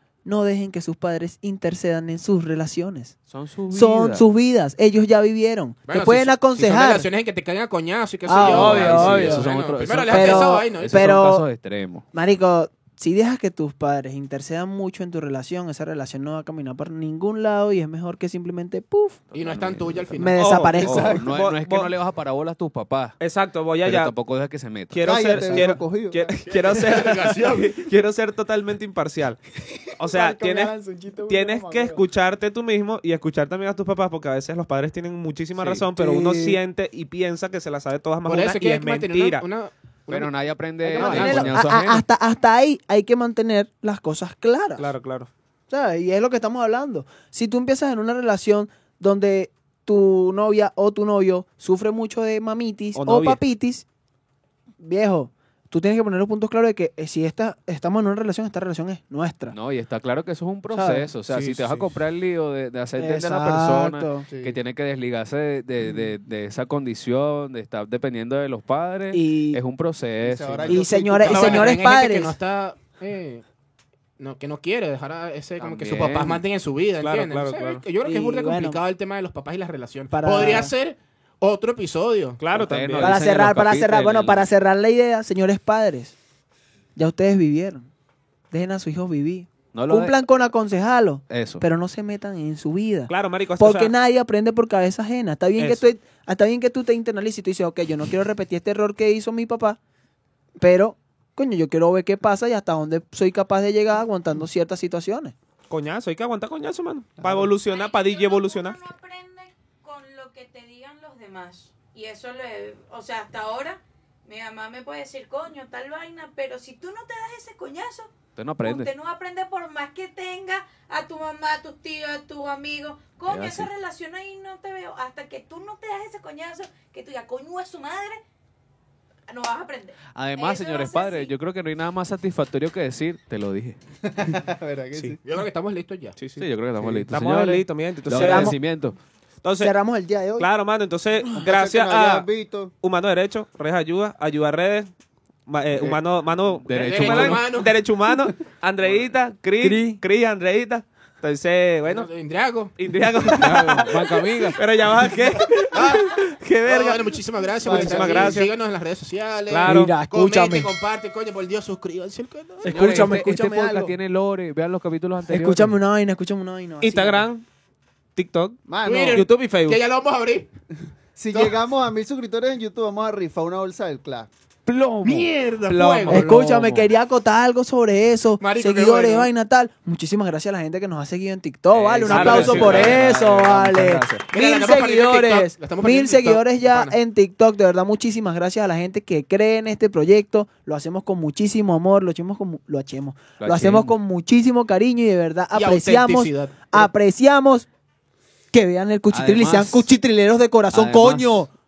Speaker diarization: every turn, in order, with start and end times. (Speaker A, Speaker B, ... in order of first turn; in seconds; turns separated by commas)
Speaker A: 0.2-3.1, Speaker B: 3.3-4.3, Speaker A: 3.7-7.1, Speaker C: 5.9-11.1, Speaker A: 8.2-9.5, Speaker B: 8.4-12.0, Speaker A: 10.1-11.5, Speaker A: 12.1-19.2, Speaker C: 19.3-20.4, Speaker B: 19.3-20.2, Speaker A: 20.1-21.2, Speaker D: 20.4-21.9, Speaker E: 20.8-21.2, Speaker B: 21.1-23.1, Speaker D: 23.2-24.1, Speaker B: 23.8-25.7, Speaker D: 24.9-29.4, Speaker E: 25.0-26.3, Speaker C: 26.4-27.7, Speaker D: 30.0-30.7, Speaker A: 30.0-32.0, Speaker D: 31.3-39.4, Speaker B: 35.6-35.9, Speaker E: 36.0-36.6, Speaker C: 38.2-41.6, Speaker B: 40.1-42.0, Speaker A: 40.8-44.9, Speaker D: 44.8-45.3, Speaker A: 45.7-53.9, Speaker D: 53.0-53.4, Speaker A: 54.8-59.5, Speaker B: 59.5-70.8, Speaker A: 60.7-61.1, Speaker D: 61.3-61.7, Speaker A: 63.0-64.3, Speaker E: 64.3-64.6, Speaker A: 69.1-69.6, Speaker E: 70.2-71.5, Speaker A: 70.7-72.4, Speaker C: 71.1-73.4, Speaker C: 74.2-82.4, Speaker B: 75.6-76.4, Speaker D: 77.0-77.8, Speaker A: 78.0-78.8, Speaker A: 80.1-80.7, Speaker D: 82.4-83.2, Speaker B: 82.5-84.5, Speaker A: 83.0-86.2, Speaker A: 87.0-87.9, Speaker A: 88.5-99.8, Speaker B: 89.7-90.1, Speaker B: 91.3-91.6, Speaker D: 93.1-93.9, Speaker D: 95.6-95.8, Speaker A: 100.6-105.3, Speaker D: 105.7-108.8, Speaker E: 107.2-107.5, Speaker F: 107.6-128.2, Speaker B: 118.3-118.9, Speaker B: 123.3-123.7, Speaker F: 129.3-131.3, Speaker B: 130.1-133.8, Speaker E: 134.0-135.2, Speaker C: 135.2-136.3, Speaker D: 136.2-136.5, Speaker B: 136.3-139.0, Speaker D: 137.1-138.6, Speaker A: 138.1-138.6, Speaker D: 139.4-139.8, Speaker A: 139.6-140.5, Speaker D: 140.4-142.3, Speaker E: 141.3-142.7, Speaker D: 142.8-144.9, Speaker D: 145.5-152.1, Speaker B: 145.7-146.0, Speaker B: 146.6-147.5, Speaker C: 146.7-147.7, Speaker A: 149.6-150.0, Speaker C: 151.8-152.7, Speaker D: 152.8-158.5, Speaker B: 153.3-154.6, Speaker C: 155.7-163.2, Speaker A: 157.6-158.1, Speaker D: 159.5-159.9, Speaker A: 159.6-160.7, Speaker A: 162.6-163.9, Speaker B: 162.7-165.8, Speaker A: 165.3-167.3, Speaker D: 166.8-167.4, Speaker D: 168.2-168.6, Speaker E: 168.7-169.2, Speaker C: 168.8-170.5, Speaker D: 169.1-169.8, Speaker E: 171.2-174.3, Speaker B: 174.7-175.3, Speaker C: 175.0-176.5, Speaker D: 175.7-176.2, Speaker A: 176.1-197.7, Speaker B: 176.1-176.9, Speaker C: 178.4-179.3, Speaker B: 181.7-184.2, Speaker D: 182.1-183.0, Speaker C: 182.1-183.0, Speaker C: 184.3-187.0, Speaker B: 193.4-193.9, Speaker C: 195.5-196.9, Speaker A: 198.5-201.5, Speaker B: 199.1-199.9, Speaker B: 200.7-201.4